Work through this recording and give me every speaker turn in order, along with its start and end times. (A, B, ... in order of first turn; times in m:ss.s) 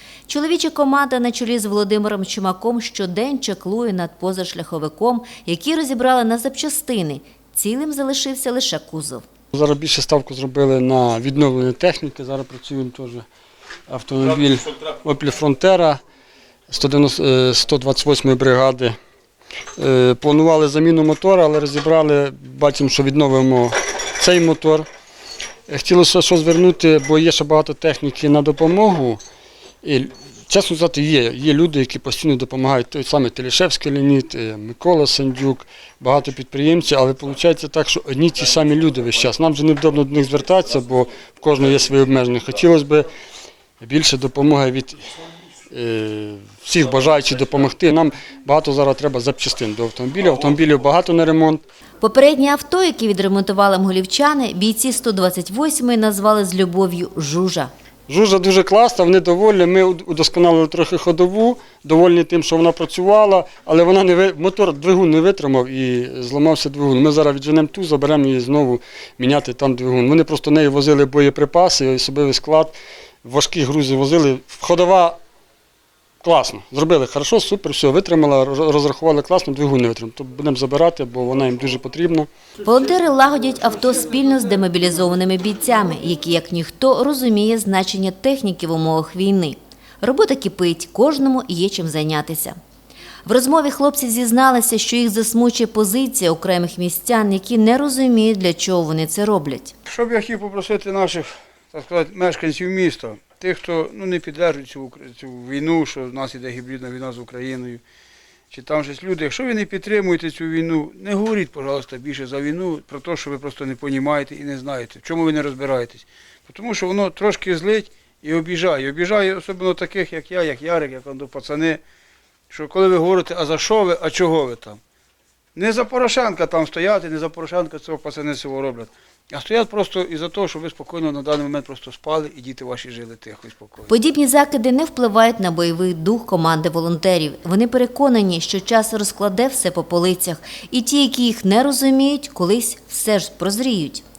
0:00.3-0:09.2 A
0:09.5-0:13.2 B
0:13.9-0:16.0 B
0:16.7-0:18.9 B
0:19.8-0:24.9 B
0:25.7-0:29.2 B
0:29.8-0:43.1 B
0:43.8-0:45.0 B
0:45.7-0:51.6 B
0:52.0-0:57.7 A
0:58.1-1:15.2 B
1:16.2-1:22.3 B
1:22.6-1:32.6 A
1:33.2-1:39.7 A
1:39.8-1:47.8 C
1:48.5-2:01.8 C
2:02.5-2:04.8 C
2:05.6-2:13.9 C
2:13.9-2:24.0 A